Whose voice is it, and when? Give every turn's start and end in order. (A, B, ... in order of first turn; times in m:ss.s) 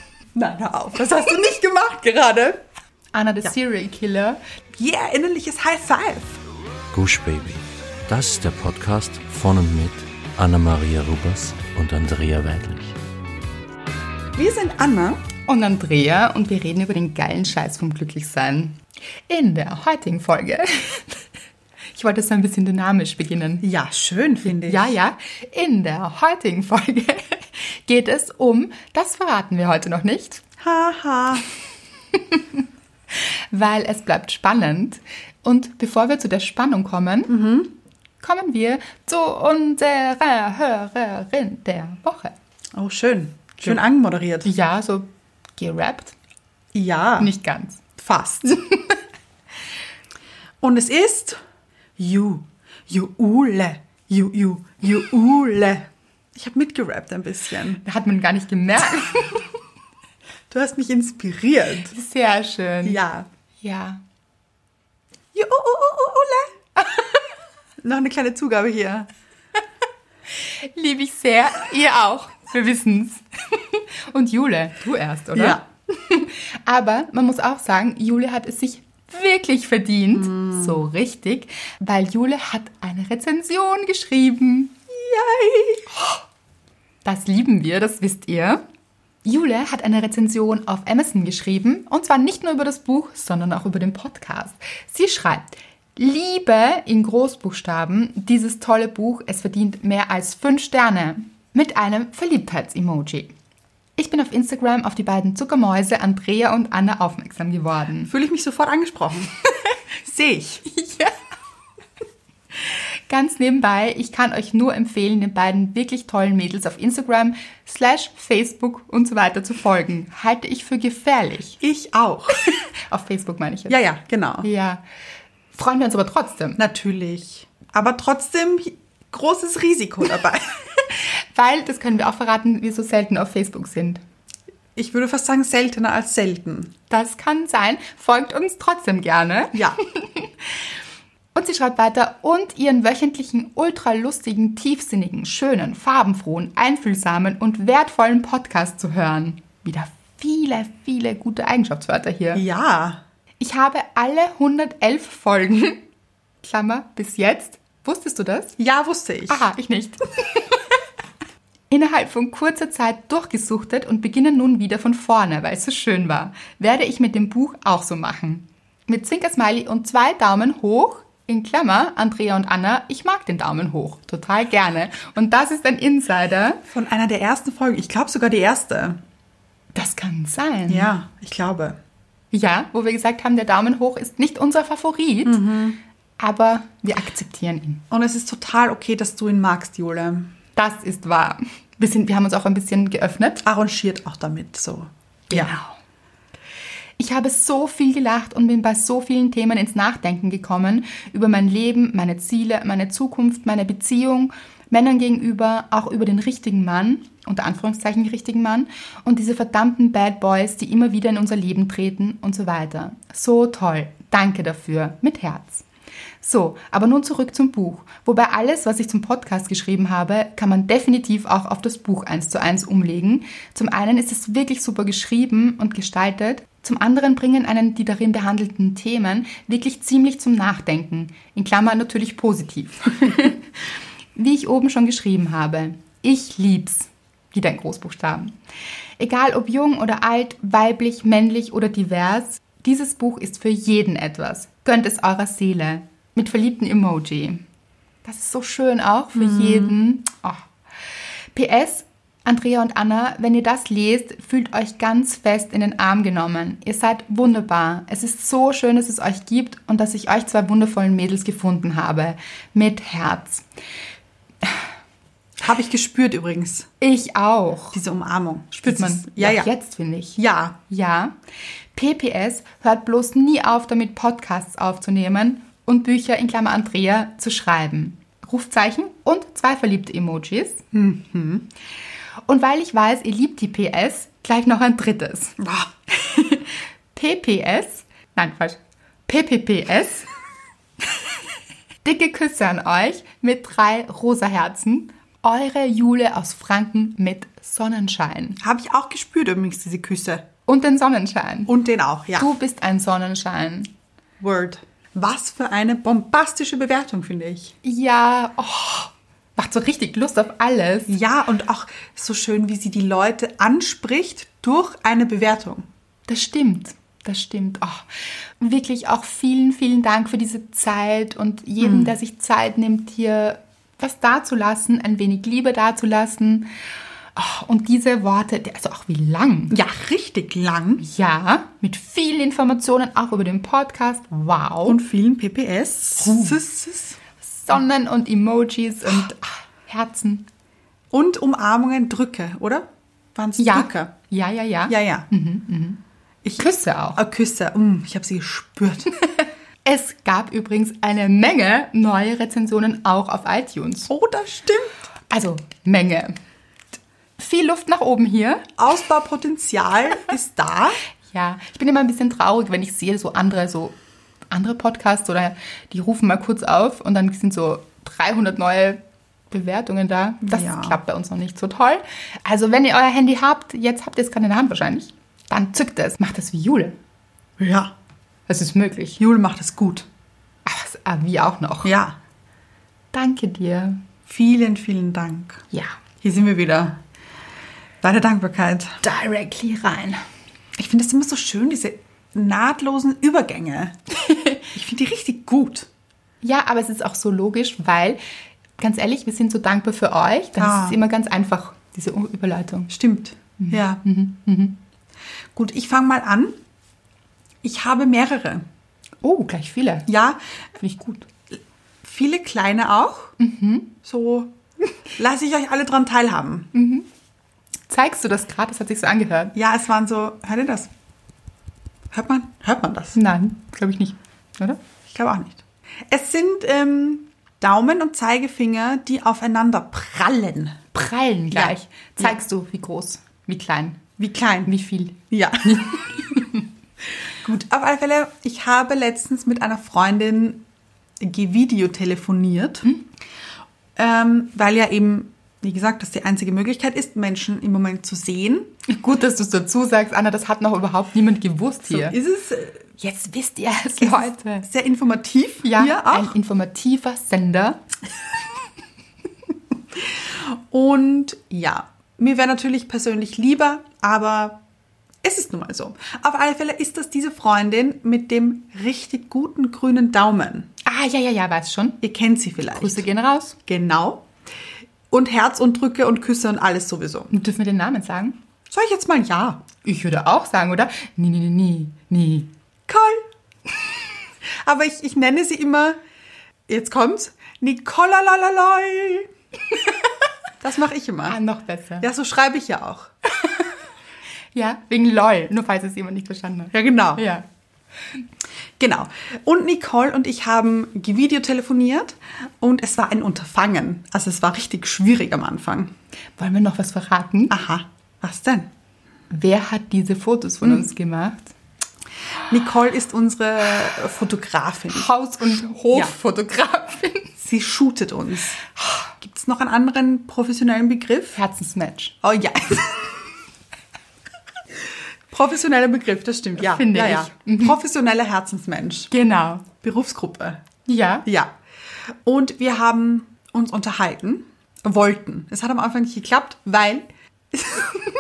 0:00.4-0:02.6 A
0:03.1-0:04.4 B
0:04.8-0:06.4 A
0:06.9-0:13.0 C
0:14.3-0:15.2 A
0:15.5-0:21.2 B
0:21.9-0:23.6 B
0:23.6-0:25.0 A
0:24.5-0:30.4 B
0:30.6-0:31.5 A
0:32.2-0:32.6 B
0:33.2-0:37.4 B
0:37.3-0:37.7 A
0:38.2-0:42.3 B
0:42.8-0:44.5 A
0:44.4-0:46.1 B
0:46.7-0:47.3 A
0:47.2-0:47.8 B
0:48.0-0:48.6 A
0:48.6-0:49.0 B
0:50.6-0:51.4 A
0:52.0-0:57.8 A
0:57.8-0:59.4 B
1:00.5-1:02.0 A
1:01.9-1:03.0 B
1:02.8-1:03.3 A
1:03.6-1:04.0 B
1:05.3-1:06.6 A
1:07.8-1:09.1 A
1:10.4-1:24.8 B
1:15.3-1:15.6 A
1:20.2-1:20.8 A
1:24.9-1:25.9 A
1:27.0-1:28.6 B
1:29.2-1:43.3 B
1:44.0-1:48.1 B
1:48.1-1:49.3 A
1:50.0-1:50.7 A
1:50.7-1:51.2 B
1:52.6-2:01.6 B
2:01.6-2:02.5 A
2:02.4-2:03.8 B
2:03.7-2:04.5 A
2:04.4-2:04.8 B
2:05.5-2:06.6 B
2:06.6-2:10.6 A
2:10.8-2:14.0 B
2:14.8-2:16.7 A
2:16.9-2:20.7 B
2:19.5-2:19.8 A
2:21.3-2:32.4 B
2:32.3-2:33.0 A
2:33.4-2:35.8 B
2:36.4-2:38.6 B
2:38.6-2:39.4 A
2:39.3-2:40.6 B
2:41.7-2:56.6 B
2:56.7-2:59.0 A
2:59.7-3:00.9 B
3:00.7-3:01.8 A
3:02.3-3:05.4 B
3:05.2-3:05.8 A
3:06.2-3:07.8 B
3:07.9-3:10.3 A
3:10.6-3:13.4 B
3:13.4-3:15.5 A
3:15.3-3:15.7 B
3:17.0-3:35.6 B
3:36.2-3:53.4 B
3:54.1-3:58.4 B
3:59.0-4:07.4 B
4:08.0-4:10.5 B
4:09.2-4:09.8 A
4:11.3-4:23.4 B
4:25.4-4:26.7 A
4:26.8-4:27.8 B
4:27.7-4:29.5 A
4:28.5-4:31.2 B
4:30.2-4:30.6 A
4:31.8-4:40.6 B
4:40.7-4:41.5 A
4:42.3-4:45.4 B
4:45.4-4:46.2 A
4:46.1-4:50.1 B
4:51.8-4:58.4 B
4:58.4-5:00.2 A
5:00.5-5:01.5 B
5:01.5-5:02.3 A
5:02.2-5:03.7 B
5:04.2-5:07.6 A
5:07.6-5:10.9 B
5:10.9-5:15.7 A
5:16.1-5:17.9 B
5:18.4-5:26.5 B
5:21.6-5:21.9 A
5:27.2-5:29.6 B
5:29.5-5:30.8 A
5:30.8-5:34.8 B
5:34.6-5:37.0 A
5:36.0-5:36.4 B
5:37.2-5:40.3 B
5:40.9-5:43.9 A
5:43.4-5:45.8 B
5:44.7-5:45.1 A
5:46.2-5:49.0 A
5:46.4-5:47.0 B
5:49.6-5:53.9 B
5:53.9-5:54.8 A
5:55.1-5:56.2 B
5:57.2-5:58.5 B
5:58.6-6:00.8 A
6:01.1-6:03.8 B
6:04.3-6:16.8 B
6:10.2-6:10.8 A
6:17.4-6:17.7 A
6:18.3-6:19.0 B
6:19.0-6:19.9 A
6:20.5-6:21.7 B
6:21.6-6:22.0 A
6:22.9-6:23.8 B
6:24.1-6:25.4 A
6:26.0-6:26.8 A
6:27.8-6:28.8 A
6:28.8-6:30.0 B
6:30.6-6:33.8 A
6:34.0-6:34.5 B
6:34.5-6:35.7 A
6:36.2-6:38.0 B
6:38.6-6:42.7 B
6:40.4-6:40.8 A
6:42.7-6:43.8 A
6:43.4-6:44.6 B
6:45.4-6:46.4 A
6:47.4-6:48.4 A
6:49.0-6:49.9 B
6:49.9-6:50.2 A
6:50.6-6:51.1 B
6:51.8-6:53.1 A
6:53.2-6:53.8 B
6:53.8-6:54.4 A
6:55.0-6:56.5 A
6:56.5-6:56.9 B
6:57.7-6:59.4 B
6:59.4-7:00.7 A
7:01.9-7:03.0 A
7:02.9-7:04.6 B
7:04.9-7:10.6 A
7:10.7-7:13.8 B
7:11.3-7:12.2 A
7:14.0-7:14.5 A
7:14.5-7:16.4 B
7:15.1-7:15.8 A
7:17.2-7:20.4 A
7:21.0-7:22.7 A
7:23.8-7:28.5 A
7:28.7-7:32.0 B
7:31.7-7:32.7 A
7:32.8-7:34.5 B
7:33.8-7:36.2 A
7:35.4-7:37.6 B
7:39.8-7:44.4 A
7:45.0-7:50.5 A
7:50.6-7:51.8 B
7:51.8-7:52.9 A
7:52.5-7:53.4 B
7:53.5-7:54.1 A
7:54.9-7:57.1 A
7:57.1-7:58.2 B
7:58.5-7:59.5 A
7:59.6-8:02.3 B
8:02.7-8:03.1 A
8:04.4-8:05.8 A
8:06.5-8:09.1 A
8:10.4-8:11.2 A
8:11.1-8:11.9 B
8:11.8-8:12.9 A
8:13.2-8:13.5 B
8:14.4-8:17.2 B
8:16.5-8:17.0 A
8:18.6-8:25.7 A
8:26.2-8:27.4 B
8:27.3-8:28.5 A
8:29.1-8:31.3 B
8:32.3-8:34.9 A
8:34.7-8:37.1 B
8:37.2-8:38.4 A
8:39.0-8:41.2 A
8:41.1-8:42.0 B
8:42.0-8:43.0 A
8:45.1-8:48.9 A
8:46.4-8:47.6 B
8:48.9-8:49.5 B
8:49.6-8:50.4 A
8:50.6-8:51.1 B
8:51.0-8:57.9 A